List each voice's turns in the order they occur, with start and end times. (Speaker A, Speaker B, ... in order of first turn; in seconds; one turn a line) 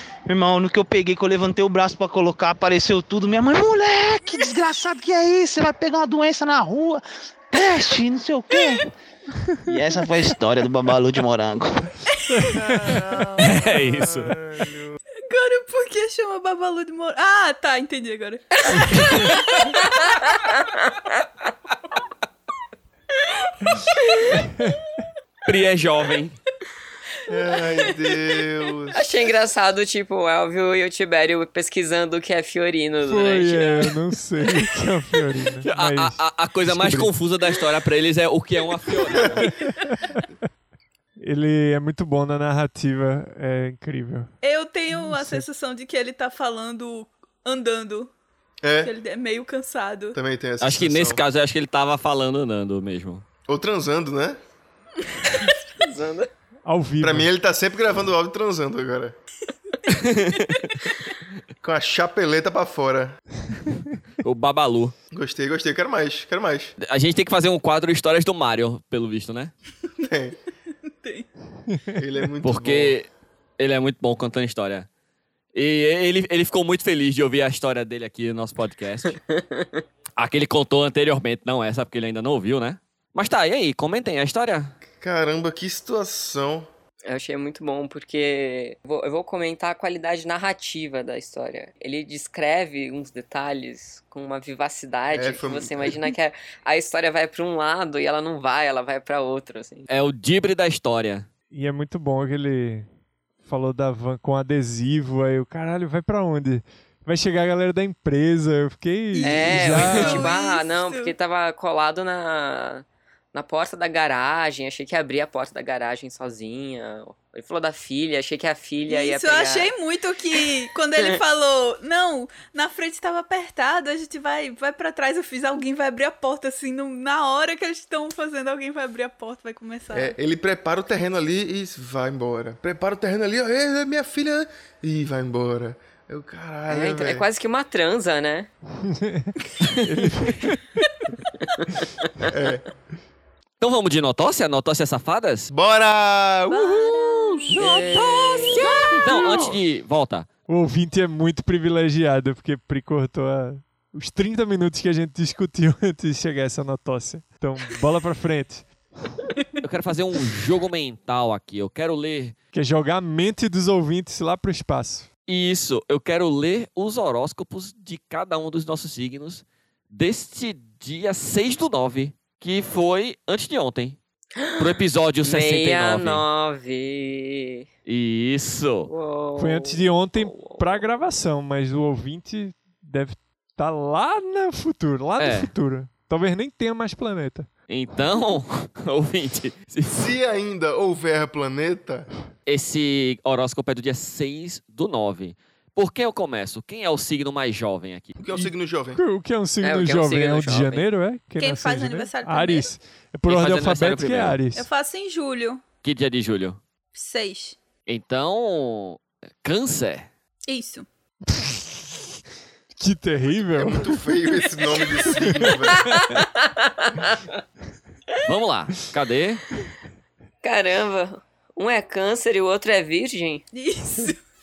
Speaker A: 0.3-8.9
Speaker A: 9.6-11.9
Speaker B: 12.2-12.6
Speaker C: 12.4-15.0
Speaker D: 13.4-14.3
Speaker B: 15.3-19.7
Speaker E: 18.7-19.4
Speaker E: 24.3-24.8
Speaker D: 25.4-26.4
Speaker C: 27.3-29.1
Speaker F: 28.9-33.9
Speaker E: 33.0-37.1
Speaker D: 35.6-39.5
Speaker E: 39.4-40.2
Speaker E: 41.2-44.3
Speaker B: 44.4-48.1
Speaker E: 44.9-45.4
Speaker C: 48.6-48.9
Speaker B: 48.8-50.2
Speaker C: 50.1-51.2
Speaker D: 50.6-53.2
Speaker C: 53.5-54.4
Speaker F: 55.8-56.3
Speaker E: 56.6-57.3
Speaker C: 57.0-59.1
Speaker D: 59.9-60.8
Speaker C: 61.6-63.2
Speaker D: 64.2-65.0
Speaker C: 65.1-66.8
Speaker D: 66.8-69.5
Speaker C: 70.0-70.4
Speaker B: 71.0-71.3
Speaker E: 71.7-72.0
Speaker C: 72.0-73.0
Speaker D: 72.4-74.9
Speaker D: 75.5-79.2
Speaker F: 79.1-79.8
Speaker D: 80.2-84.8
Speaker C: 85.0-86.7
Speaker F: 87.1-99.9
Speaker C: 95.1-96.1
Speaker D: 99.9-101.3
Speaker E: 101.5-102.9
Speaker E: 103.4-110.3
Speaker B: 109.1-111.1
Speaker F: 109.2-119.7
Speaker B: 118.9-130.2
Speaker C: 129.9-137.2
Speaker F: 136.7-138.5
Speaker E: 138.8-140.8
Speaker F: 139.8-140.4
Speaker C: 142.3-142.7
Speaker D: 143.6-145.5
Speaker C: 145.5-147.8
Speaker B: 146.5-147.5
Speaker F: 147.5-148.8
Speaker E: 147.6-149.2
Speaker C: 148.6-149.5
Speaker D: 149.0-150.3
Speaker E: 150.5-159.2
Speaker D: 159.6-162.4
Speaker E: 162.5-165.1
Speaker D: 165.3-174.0
Speaker F: 174.4-177.7
Speaker D: 174.6-176.2
Speaker D: 177.9-178.9
Speaker F: 178.9-180.9
Speaker E: 179.4-187.5
Speaker D: 185.2-185.5
Speaker D: 187.7-190.2
Speaker C: 189.9-192.1
Speaker D: 192.5-198.2
Speaker C: 198.2-199.0
Speaker E: 198.3-204.7
Speaker F: 199.6-200.9
Speaker B: 201.4-202.8
Speaker D: 203.3-204.4
Speaker B: 204.5-205.6
Speaker D: 205.8-206.6
Speaker B: 206.9-207.6
Speaker D: 207.9-210.1
Speaker B: 210.5-210.9
Speaker E: 211.3-211.6
Speaker E: 212.8-214.0
Speaker C: 213.6-216.0
Speaker E: 215.1-215.5
Speaker F: 215.8-217.2
Speaker D: 218.2-219.4
Speaker F: 220.4-223.4
Speaker B: 223.5-224.2